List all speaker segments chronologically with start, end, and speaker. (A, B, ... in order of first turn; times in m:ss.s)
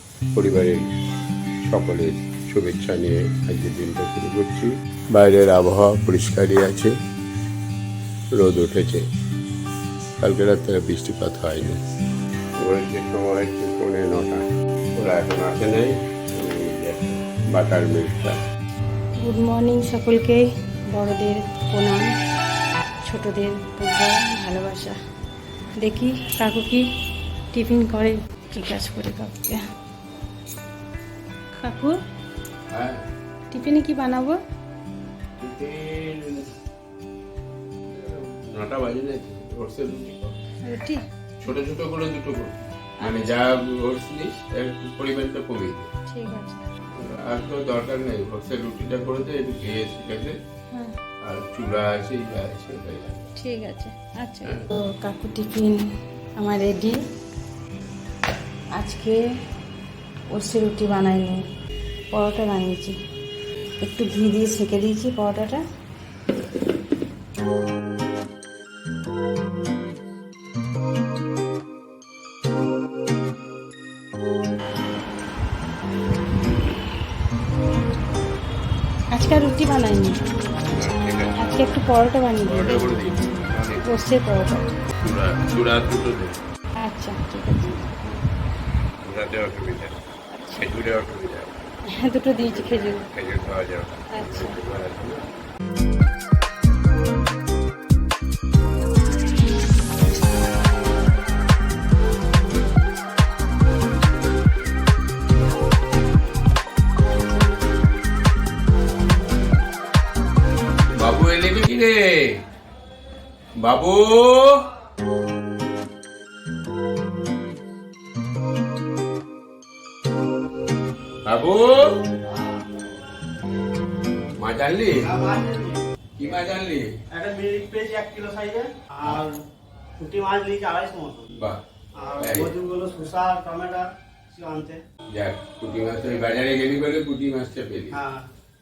0:00.3-0:00.9 A
0:01.6-0:07.0 A
0:08.3-0:09.1 A
0:10.2-0:11.8 A
0:12.6-0:14.4 A
0:15.0-0:18.4 A
0:19.2-0:22.1 B
0:23.1-0:25.0 B
0:25.8-0:26.8 B
0:27.5-0:29.6 B
0:31.6-0:32.0 B
0:32.7-0:33.0 A
0:33.5-0:34.4 B
0:35.4-0:36.5 A
0:38.0-0:40.4 A
0:40.6-0:41.0 B
0:41.4-0:45.9 A
0:46.1-0:46.6 B
0:47.0-0:50.4 A
0:51.2-0:53.3 A
0:53.4-0:57.0 B
0:58.7-0:59.2 B
1:00.3-1:01.4 B
1:02.1-1:03.0 B
1:03.8-1:05.6 B
1:19.1-1:20.2 B
1:20.7-1:21.5 A
1:21.4-1:22.9 B
1:22.4-1:23.9 A
1:23.9-1:24.7 B
1:25.0-1:26.4 A
1:26.8-1:28.0 B
1:29.0-1:30.0 A
1:30.4-1:30.7 B
1:30.6-1:31.5 A
1:31.9-1:33.1 B
1:32.4-1:35.2 A
1:34.1-1:34.6 B
1:51.0-1:52.4 A
1:53.6-1:54.6 A
2:01.3-2:01.9 A
2:02.3-2:02.8 C
2:04.4-2:05.1 A
2:05.0-2:05.8 C
2:06.2-2:06.9 A
2:07.1-2:09.4 C
2:10.0-2:11.3 C
2:12.0-2:14.8 C
2:12.2-2:12.5 A
2:15.1-2:18.0 A
2:17.9-2:18.3 C